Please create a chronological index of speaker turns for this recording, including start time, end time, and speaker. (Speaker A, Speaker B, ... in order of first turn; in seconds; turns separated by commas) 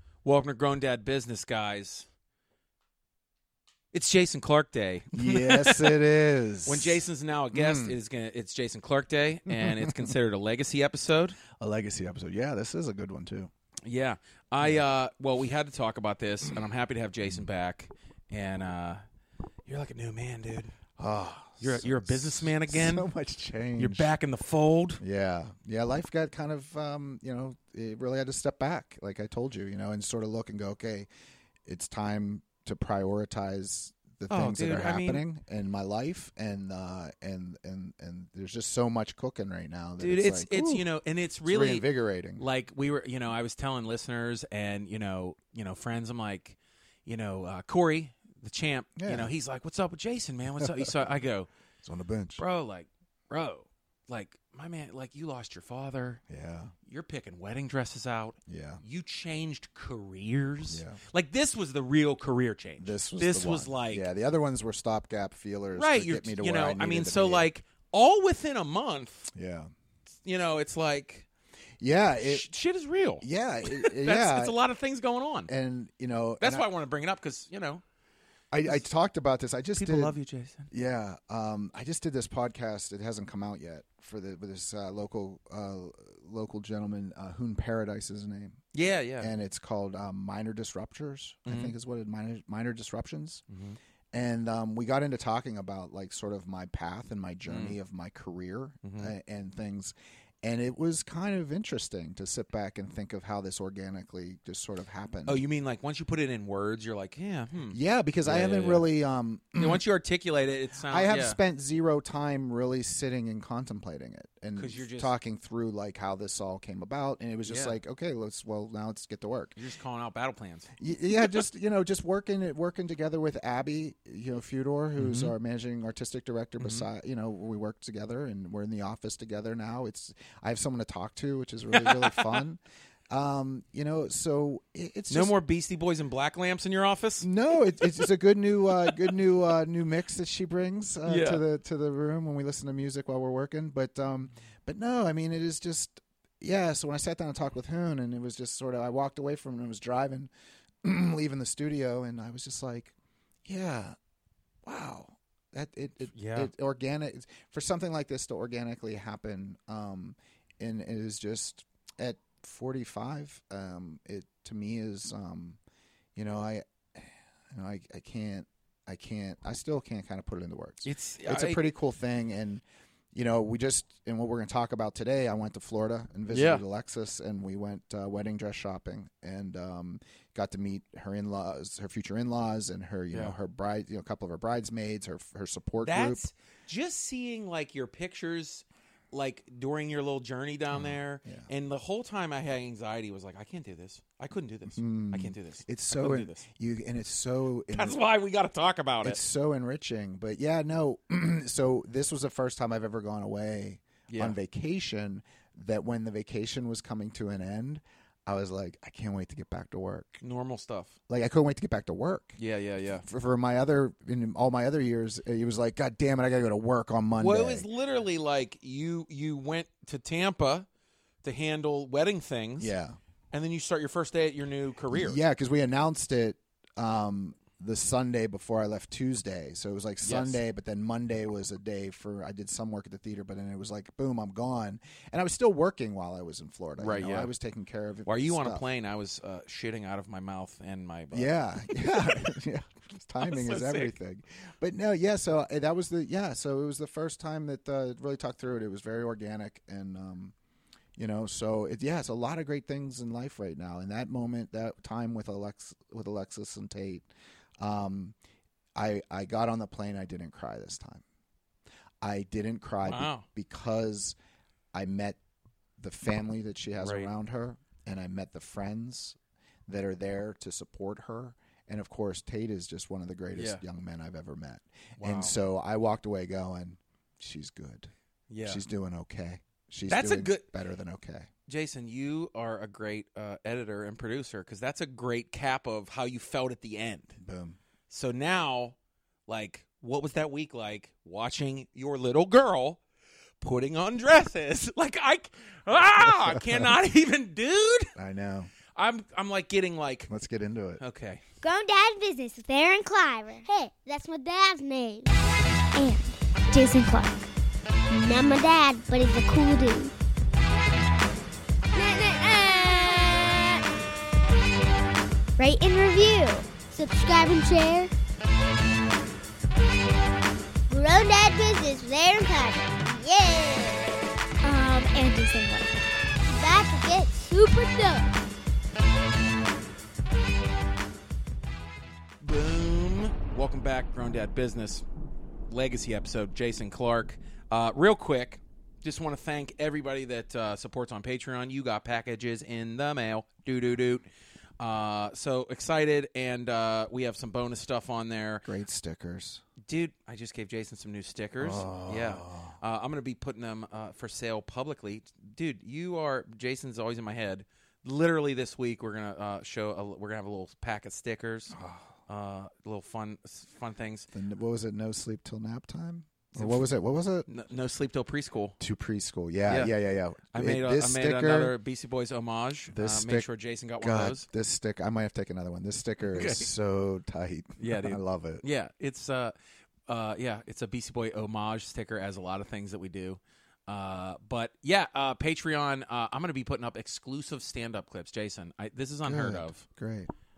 Speaker A: 0.2-2.1, Speaker A: 3.9-6.0, Speaker B: 5.1-7.9, Speaker A: 6.7-11.4, Speaker B: 9.5-10.1, Speaker B: 11.5-13.5, Speaker A: 13.8-19.0, Speaker A: 19.6-20.8, Speaker B: 21.0-24.1, Speaker A: 21.6-23.1, Speaker A: 23.8-25.0, Speaker B: 25.0-31.1, Speaker B: 31.6-40.9, Speaker A: 34.3-35.2, Speaker A: 40.0-41.9, Speaker B: 41.4-42.4, Speaker A: 42.4-51.5, Speaker B: 49.0-49.3, Speaker B: 50.6-51.0, Speaker B: 51.8-52.4, Speaker A: 52.4-56.2, Speaker B: 56.3-56.7, Speaker A: 56.8-64.1, Speaker B: 58.5-58.8, Speaker B: 60.7-61.0, Speaker B: 62.8-67.5, Speaker A: 65.7-69.3, Speaker B: 69.3-69.7, Speaker A: 70.2-71.2, Speaker B: 71.8-72.5, Speaker A: 72.2-75.5, Speaker B: 73.2-74.5, Speaker B: 75.5-76.7, Speaker A: 76.4-77.8, Speaker B: 78.5-80.1, Speaker A: 79.8-80.7, Speaker B: 80.7-88.6, Speaker A: 88.7-89.3, Speaker B: 89.2-93.4, Speaker A: 91.5-91.7, Speaker A: 93.5-93.8, Speaker B: 94.1-105.4, Speaker A: 97.5-97.8, Speaker A: 98.8-99.1, Speaker A: 105.2-108.9, Speaker B: 107.7-109.8, Speaker A: 109.6-111.4, Speaker B: 110.9-119.6, Speaker A: 114.5-115.1, Speaker A: 117.5-117.8, Speaker A: 119.5-120.7, Speaker B: 120.8-135.3, Speaker A: 125.0-125.3, Speaker A: 126.6-126.8, Speaker A: 131.7-132.4, Speaker A: 135.1-137.3, Speaker B: 137.2-150.3, Speaker A: 141.0-141.4, Speaker B: 150.8-152.9, Speaker B: 153.4-153.9, Speaker B: 154.6-165.6, Speaker A: 156.1-156.5, Speaker B: 166.2-186.2, Speaker A: 170.8-171.6, Speaker A: 176.3-176.6, Speaker A: 185.8-196.4, Speaker B: 190.7-191.5, Speaker B: 194.8-198.0, Speaker A: 197.7-199.2, Speaker B: 199.0-210.2, Speaker A: 204.1-204.4, Speaker A: 210.2-210.9, Speaker B: 211.1-212.3, Speaker A: 212.4-213.1, Speaker B: 213.0-217.7, Speaker A: 217.2-220.7, Speaker A: 221.2-222.7, Speaker B: 222.6-222.9, Speaker A: 223.3-225.2, Speaker B: 224.9-238.7, Speaker A: 230.0-230.4, Speaker A: 236.8-237.3, Speaker A: 238.1-242.4, Speaker B: 241.1-250.3, Speaker A: 243.2-243.9, Speaker B: 250.9-257.1, Speaker B: 257.6-258.1, Speaker B: 258.7-261.0, Speaker B: 262.0-264.1, Speaker A: 262.8-263.2, Speaker B: 264.7-265.2, Speaker B: 265.8-277.9, Speaker A: 266.8-267.1, Speaker A: 273.3-273.6, Speaker A: 275.0-275.3, Speaker A: 278.3-278.6, Speaker B: 278.4-281.3, Speaker A: 279.9-280.5, Speaker A: 281.5-287.2, Speaker B: 287.2-287.6, Speaker A: 287.9-288.8, Speaker A: 289.3-292.8, Speaker A: 293.4-297.9, Speaker B: 296.0-296.7, Speaker B: 297.9-298.5, Speaker A: 298.7-300.1, Speaker B: 300.1-300.8, Speaker A: 300.8-301.2, Speaker C: 301.4-305.2, Speaker C: 305.7-307.3, Speaker C: 307.9-309.9, Speaker C: 311.7-313.6, Speaker C: 315.4-317.9, Speaker C: 320.7-328.1, Speaker A: 332.2-334.8, Speaker A: 335.5-344.1, Speaker A: 344.6-348.4, Speaker B: 348.4-349.4, Speaker A: 349.6-361.6, Speaker B: 351.4-352.6, Speaker B: 361.5-361.9, Speaker A: 362.1-364.1, Speaker B: 364.1-367.2, Speaker A: 366.4-366.7, Speaker A: 367.2-368.6, Speaker B: 368.6-371.5, Speaker A: 369.5-369.7, Speaker A: 370.3-374.3, Speaker B: 372.7-373.3, Speaker B: 373.8-378.4, Speaker A: 376.1-376.5, Speaker A: 377.6-379.3, Speaker A: 379.9-389.6, Speaker B: 389.0-390.1